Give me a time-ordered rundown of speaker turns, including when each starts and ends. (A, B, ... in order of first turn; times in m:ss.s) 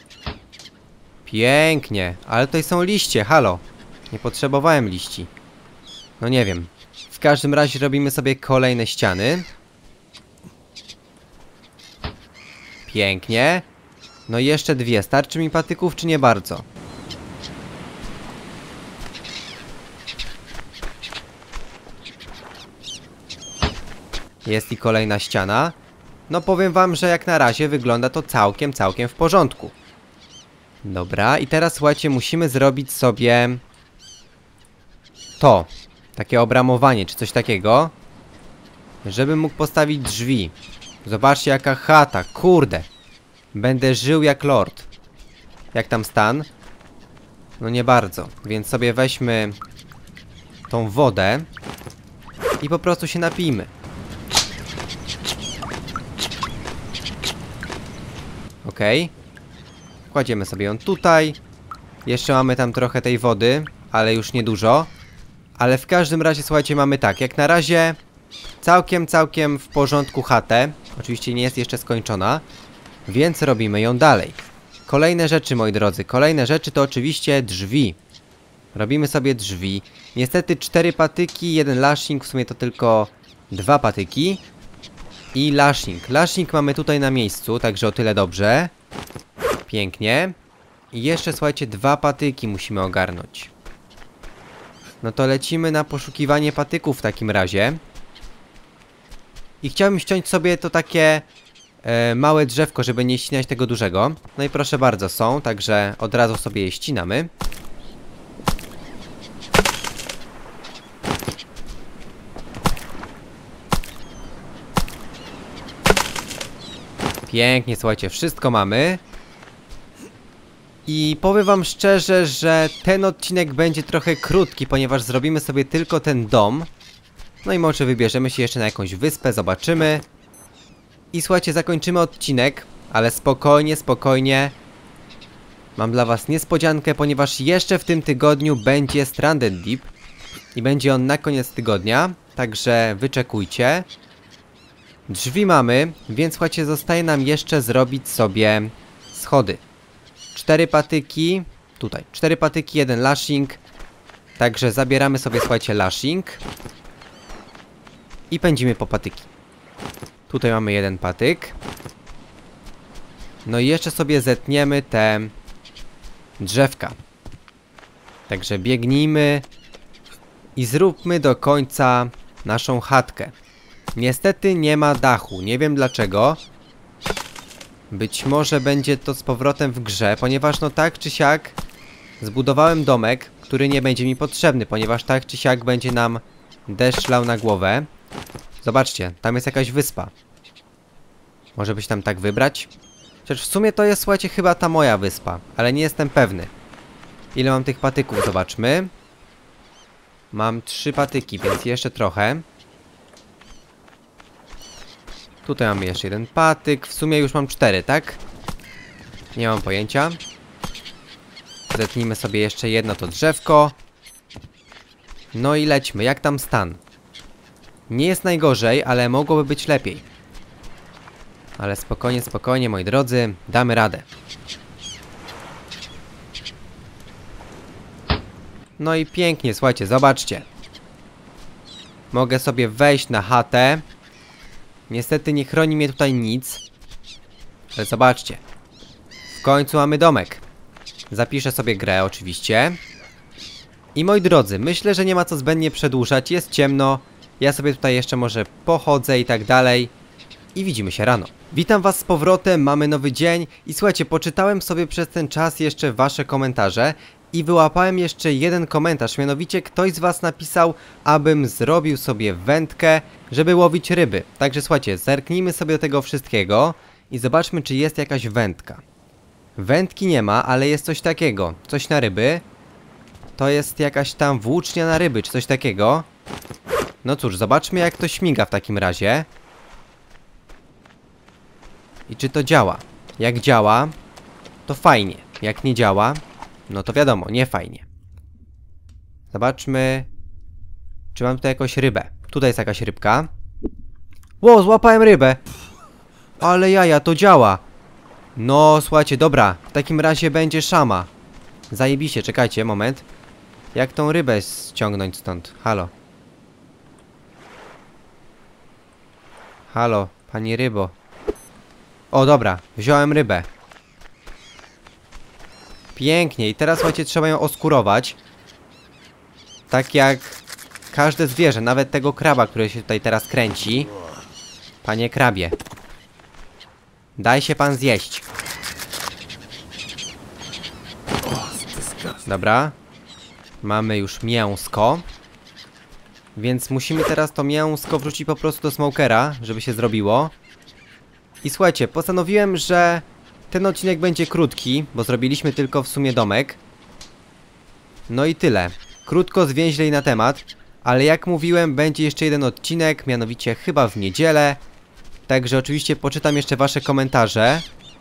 0:01.2-0:05.3 A
0:06.2-0:09.5 A
0:12.9-0:13.6 A
0:14.3-0:16.6 A
0:24.4-0:25.8 A
0:26.3-0:29.7 A
0:30.8-0:33.6 A
0:35.4-0:37.9 A
0:39.0-0:40.5 A
0:41.0-0:42.9 A
0:43.5-0:44.9 A
0:45.7-0:46.5 A
0:47.6-0:49.6 A
0:50.7-0:51.5 A
0:52.6-0:53.7 A
0:58.6-0:59.1 A
1:00.1-1:01.4 A
1:02.0-1:04.9 A
1:05.6-1:08.0 A
1:08.6-1:12.4 A
1:13.1-1:18.0 A
1:18.7-1:24.4 A
1:25.3-1:28.7 A
1:29.7-1:30.3 A
1:30.9-1:33.5 A
1:35.0-1:37.8 A
1:39.6-1:41.3 A
1:41.8-1:47.3 A
1:57.3-1:59.0 A
2:00.8-2:06.7 A
2:07.4-2:10.0 A
2:11.1-2:14.5 A
2:15.8-2:19.9 A
2:20.5-2:23.9 A
2:25.1-2:29.6 A
2:30.3-2:33.6 A
2:34.4-2:36.4 A
2:38.3-2:39.3 A
2:40.3-2:41.6 A
2:43.4-2:45.3 A
2:46.4-2:47.0 A
2:48.3-2:49.4 A
2:50.6-2:53.3 A
2:53.9-2:56.4 A
2:57.9-3:01.6 A
3:02.2-3:07.9 A
3:08.6-3:10.1 A
3:11.6-3:12.7 A
3:13.2-3:16.5 A
3:17.3-3:18.9 A
3:20.3-3:22.4 A
3:25.4-3:28.2 A
3:29.3-3:30.2 A
3:31.7-3:33.8 A
3:35.3-3:36.8 A
3:37.9-3:40.0 A
3:41.6-3:44.0 A
3:48.8-3:50.5 A
3:52.1-3:53.8 A
3:54.9-3:56.6 A
3:57.7-3:58.4 A
3:59.3-4:00.4 A
4:01.1-4:02.8 A
4:03.9-4:09.9 A
4:10.5-4:28.8 A
4:29.6-4:32.4 A
4:33.4-4:36.1 A
4:37.0-4:39.3 A
4:42.1-4:43.9 A
4:44.7-4:47.8 A
4:49.3-4:50.1 A
4:51.1-4:53.3 A
4:54.4-4:55.4 A
4:56.4-4:57.6 A
4:58.4-5:01.1 A
5:01.7-5:03.0 A
5:03.7-5:05.9 A
5:09.7-5:10.9 A
5:12.1-5:13.5 A
5:16.0-5:18.2 A
5:19.7-5:23.9 A
5:24.8-5:25.6 A
5:27.2-5:28.2 A
5:32.2-5:32.8 A
5:33.6-5:35.0 A
5:36.3-5:40.3 A
5:41.4-5:46.6 A
5:48.1-5:54.6 A
5:55.3-5:57.6 A